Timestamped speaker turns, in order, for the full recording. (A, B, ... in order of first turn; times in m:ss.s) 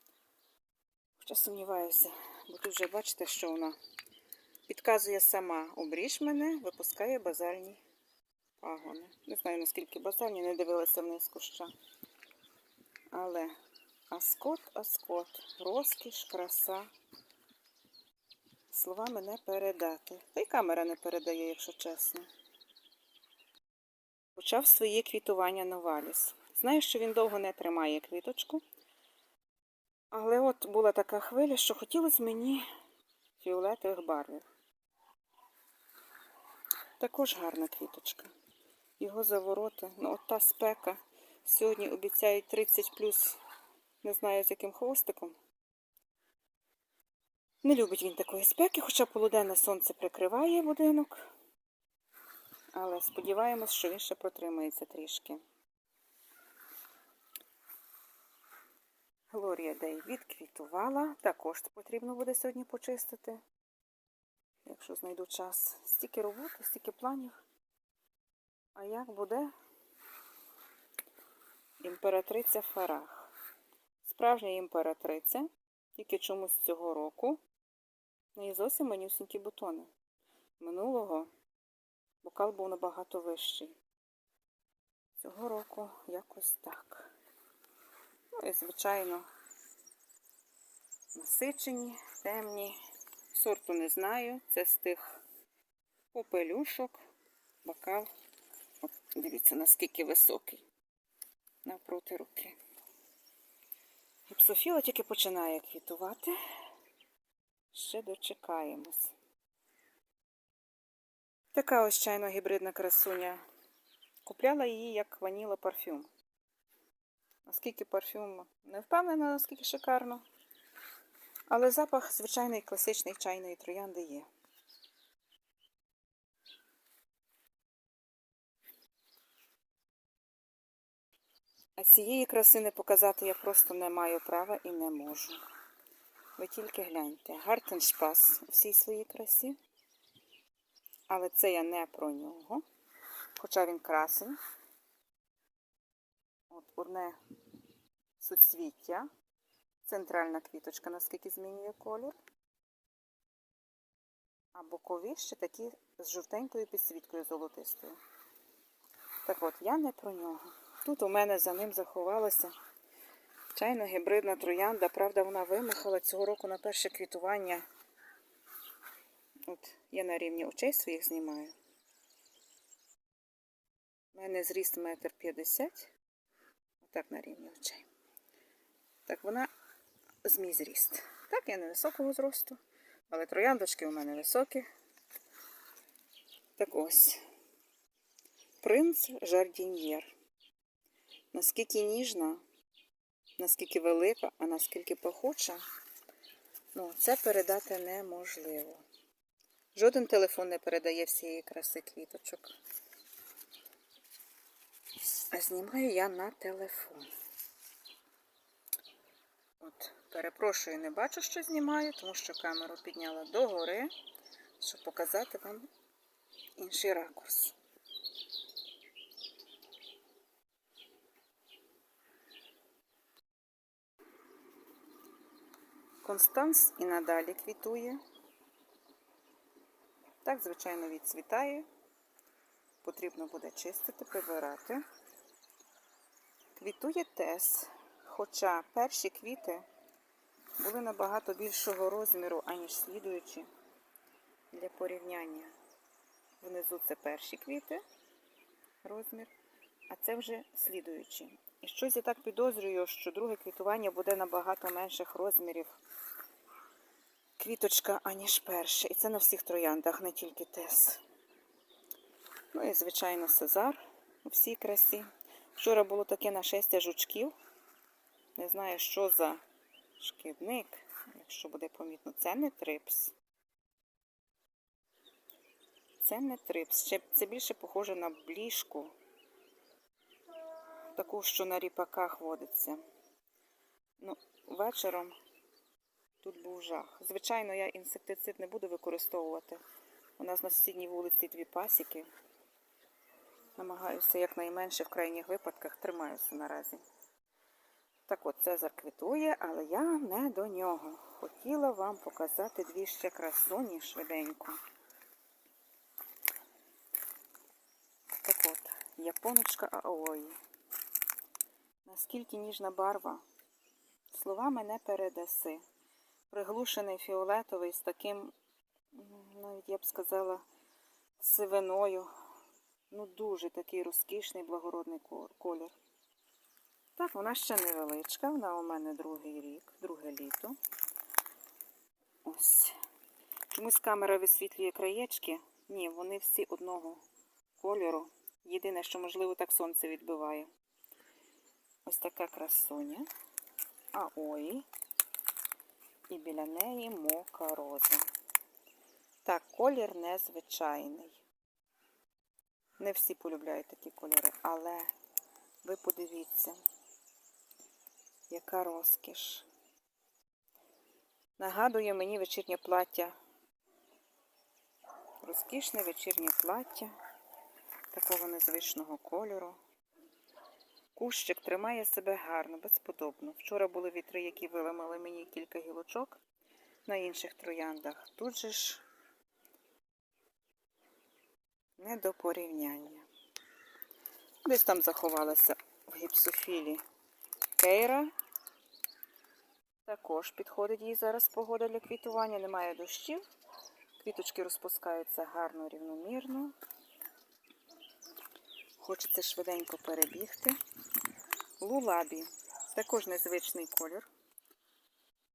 0:01.2-0:03.8 A
0:04.7-0:07.8 A
0:08.6-0:11.7 A
0:13.1-0:13.5 A
0:14.1-0:16.9 A
0:18.7-0:22.3 A
0:24.4-0:28.6 A
0:30.1-0:32.7 A
0:33.4-0:34.4 A
0:37.0-0:38.3 A
0:39.0-0:43.4 A
0:44.0-0:45.4 A
0:47.6-0:51.3 A
0:52.7-0:55.4 A
0:59.3-1:03.4 A
1:04.7-1:07.3 A
1:08.8-1:09.5 A
1:11.8-1:13.3 A
1:14.0-1:17.4 A
1:18.3-1:19.9 A
1:20.6-1:21.3 A
1:22.2-1:23.8 A
1:25.2-1:27.1 A
1:28.3-1:29.2 A
1:31.1-1:32.8 A
1:33.3-1:35.2 A
1:36.1-1:37.0 A
1:37.6-1:38.1 A
1:38.8-1:40.6 A
1:41.6-1:42.6 A
1:44.3-1:46.4 A
1:47.7-1:49.1 A
1:51.5-1:53.4 A
1:54.2-1:56.1 A
1:57.4-2:00.2 A
2:01.5-2:04.3 A
2:11.8-2:15.4 A
2:16.4-2:19.6 A
2:21.1-2:22.6 A
2:23.4-2:24.4 A
2:26.5-2:27.2 A
2:28.2-2:29.1 A
2:29.8-2:32.1 A
2:34.5-2:38.0 A
2:39.2-2:42.5 A
2:43.5-2:47.6 A
2:49.5-2:51.5 A
2:54.1-2:55.9 A
2:56.8-2:57.9 A
2:59.1-2:59.5 A
3:00.2-3:04.7 A
3:06.6-3:07.2 A
3:08.6-3:10.1 A
3:11.3-3:12.4 A
3:13.4-3:15.6 A
3:16.7-3:18.8 A
3:19.7-3:22.5 A
3:25.3-3:27.1 A
3:29.6-3:33.9 A
3:34.6-3:35.7 A
3:36.6-3:37.6 A
3:46.0-3:48.0 A
3:50.2-3:51.6 A
3:52.8-3:54.8 A
3:56.6-3:59.6 A
4:00.6-4:03.5 A
4:04.5-4:05.5 A
4:06.4-4:07.8 A
4:08.8-4:09.3 A
4:09.9-4:15.8 A
4:17.4-4:21.0 A
4:22.5-4:27.3 A
4:28.4-4:29.4 A
4:30.0-4:33.1 A
4:36.0-4:38.9 A
4:40.9-4:42.8 A
4:44.0-4:45.2 A
4:46.2-4:49.6 A
4:50.2-4:52.1 A
4:53.6-4:56.8 A
4:58.1-5:04.6 A
5:08.2-5:10.4 A
5:11.9-5:13.2 A
5:14.1-5:15.6 A
5:16.3-5:18.3 A
5:18.9-5:20.4 A
5:21.2-5:22.1 A
5:22.9-5:25.8 A
5:27.0-5:30.6 A
5:32.2-5:32.8 A
5:33.5-5:37.0 A
5:37.6-5:40.5 A
5:41.8-5:43.1 A
5:43.9-5:44.6 A
5:46.1-5:48.0 A
5:49.2-5:51.2 A
5:52.8-5:54.9 A
5:55.6-5:56.6 A
5:58.3-5:59.5 A
6:01.4-6:03.2 A
6:05.2-6:06.9 A
6:07.9-6:09.6 A
6:10.9-6:16.2 A
6:16.9-6:18.8 A
6:21.8-6:23.0 A
6:24.4-6:26.8 A
6:27.6-6:28.1 A
6:29.8-6:33.2 A
6:34.0-6:36.5 A
6:38.8-6:40.6 A
6:41.6-6:44.1 A